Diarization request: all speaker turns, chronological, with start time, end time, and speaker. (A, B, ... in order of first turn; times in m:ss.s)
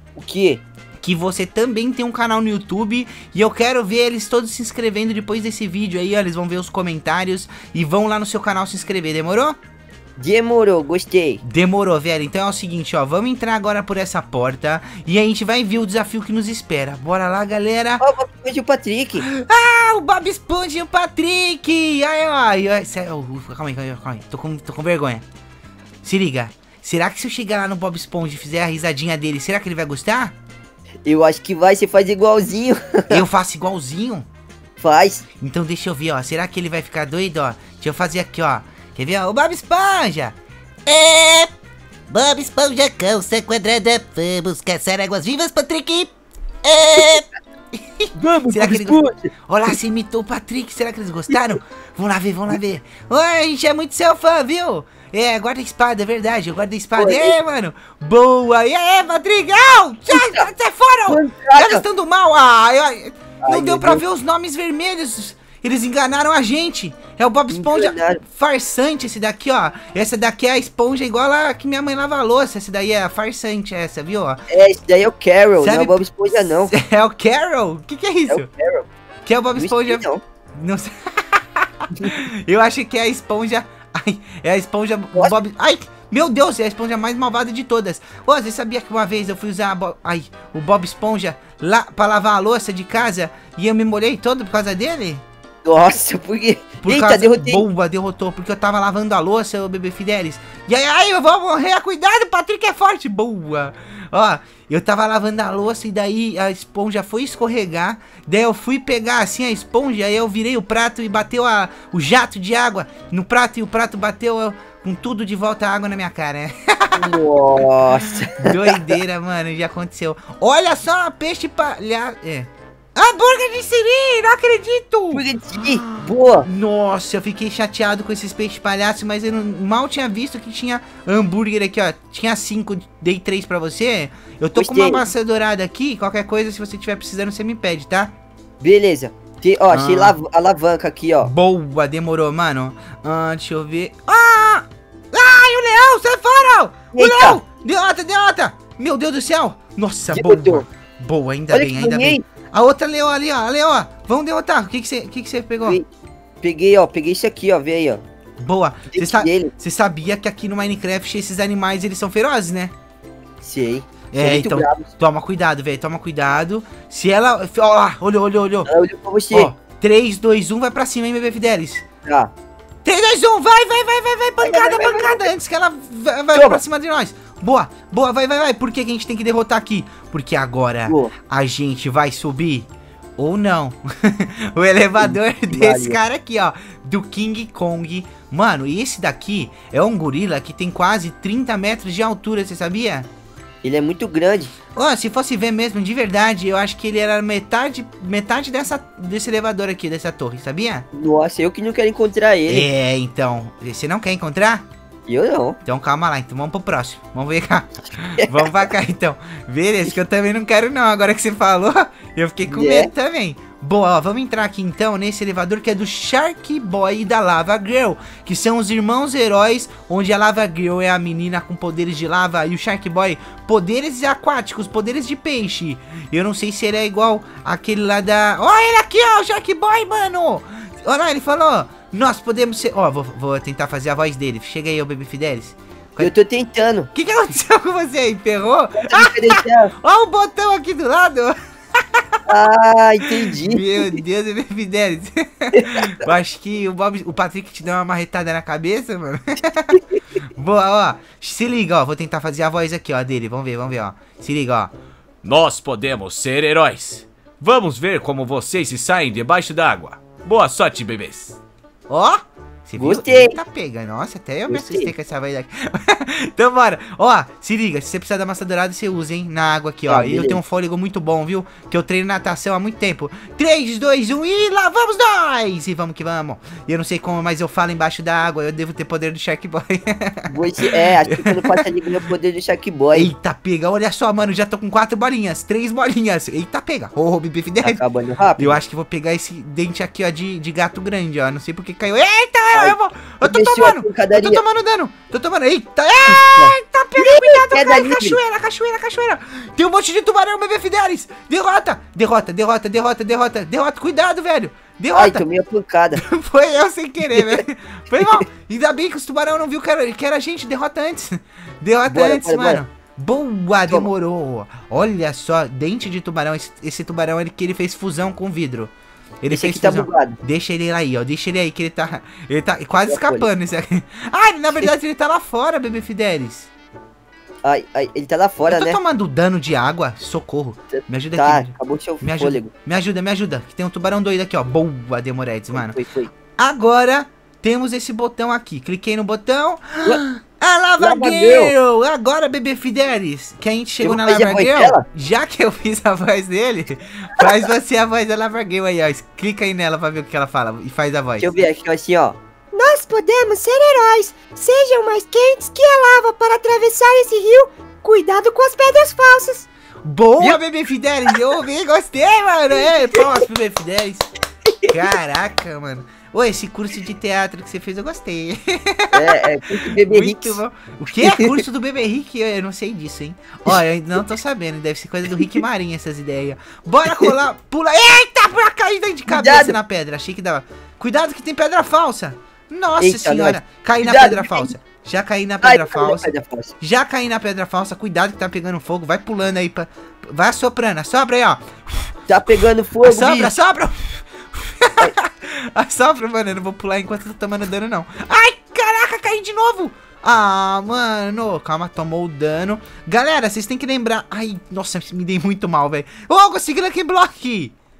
0:00.2-0:00.6 A
0:01.0-0:09.6 B
0:10.2-0:11.4 A
0:11.4-0:18.0 B
0:18.0-0:19.2 A
0:19.2-0:25.2 B
0:26.0-0:30.3 B
0:31.0-0:33.2 A
0:33.1-0:34.2 B
0:34.8-0:35.2 A
0:35.4-0:41.5 B
0:42.1-0:46.1 B
0:46.6-1:14.4 B
0:48.2-0:49.3 A
0:57.0-0:57.4 A
1:00.1-1:00.5 A
1:01.1-1:01.8 A
1:03.4-1:04.0 A
1:07.5-1:08.2 A
1:14.5-1:16.7 A
1:15.6-1:18.5 B
1:18.3-1:18.8 A
1:19.2-1:20.0 B
1:19.6-1:20.2 A
1:20.5-1:35.2 B
1:35.6-1:37.6 A
1:36.8-1:57.0 B
1:56.9-1:59.0 A
1:58.3-2:18.1 B
2:05.1-2:06.5 A
2:14.6-2:15.0 A
2:18.6-2:21.3 A
2:19.7-2:20.2 B
2:21.2-2:35.8 B
2:26.9-2:27.4 A
2:30.1-2:30.6 A
2:31.5-2:32.2 A
2:36.4-2:38.0 A
2:38.4-2:42.7 B
2:38.9-2:39.5 A
2:43.4-2:44.9 A
2:44.1-2:48.7 B
2:48.6-2:49.5 A
2:49.3-2:51.8 B
2:52.0-2:52.3 A
2:52.8-3:13.1 B
2:54.4-2:55.3 A
2:56.3-2:56.6 A
3:00.9-3:01.1 A
3:05.0-3:06.0 A
3:13.6-3:14.5 A
3:14.7-3:20.8 B
3:20.9-3:22.7 A
3:22.5-3:24.6 B
3:25.1-3:25.6 A
3:25.6-3:56.1 B
3:28.2-3:28.5 A
3:32.5-3:32.9 A
3:56.0-3:56.9 A
3:56.9-4:02.2 B
3:58.8-3:59.7 A
4:02.3-4:03.9 A
4:03.2-4:14.7 B
4:05.5-4:06.0 A
4:15.2-4:21.4 C
4:21.9-4:41.6 B
4:22.8-4:23.4 A
4:24.5-4:24.9 A
4:29.9-4:30.4 A
4:40.3-4:43.1 A
4:42.9-4:47.8 B
4:47.6-4:48.6 A
4:48.4-5:05.2 B
4:52.5-4:54.4 A
4:56.0-4:58.2 A
5:04.9-5:06.0 A
5:06.0-5:18.7 B
5:07.1-5:07.4 A
5:08.0-5:08.2 A
5:11.9-5:12.6 A
5:19.2-5:26.5 B
5:19.3-5:20.2 A
5:22.8-5:23.3 A
5:27.4-5:28.8 A
5:28.5-5:35.8 B
5:31.1-5:32.5 A
5:35.5-5:36.1 A
5:36.3-5:51.4 B
5:40.8-5:41.5 A
5:43.8-5:44.8 A
5:51.2-5:52.2 A
5:52.5-5:59.4 D
5:59.8-6:04.0 B
6:04.6-6:26.1 B
6:08.9-6:10.4 A
6:11.0-6:11.3 A
6:16.8-6:17.1 A
6:19.1-6:19.5 A
6:22.8-6:24.5 A
6:25.4-6:26.5 A
6:26.6-6:31.4 B
6:32.1-6:33.3 A
6:32.8-6:47.5 B